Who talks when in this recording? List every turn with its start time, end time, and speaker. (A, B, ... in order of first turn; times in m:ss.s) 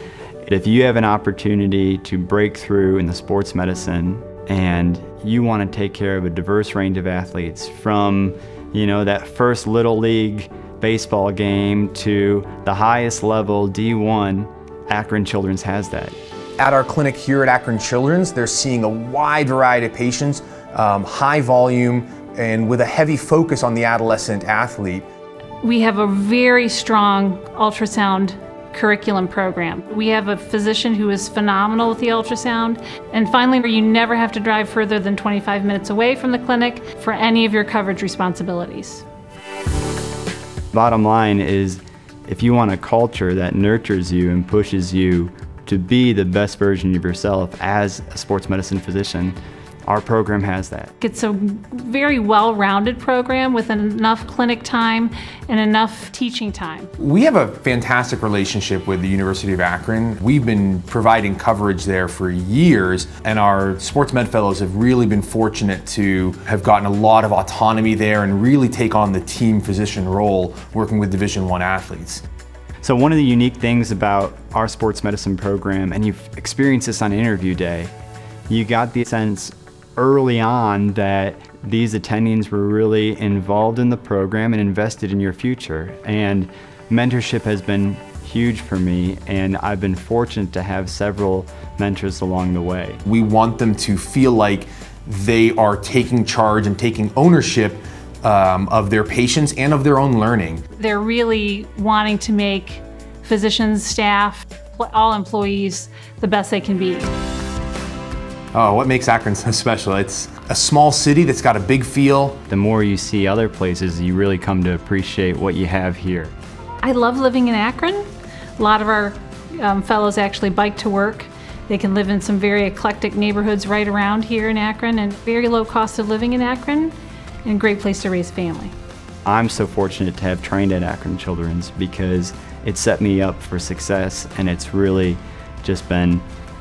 0:00.4-0:16.2 A
0:16.6-0:25.0 B
0:25.6-0:39.0 C
0:40.7-0:50.9 A
0:51.0-0:56.9 C
0:57.0-1:12.2 B
1:12.8-1:17.9 A
1:18.5-1:33.0 A
1:33.0-1:40.6 B
1:40.8-1:47.1 C
1:48.5-1:52.4 B
1:52.5-1:56.3 A
1:56.8-1:58.0 C
1:58.6-2:06.9 C
2:07.4-2:08.7 C
2:09.2-2:16.2 A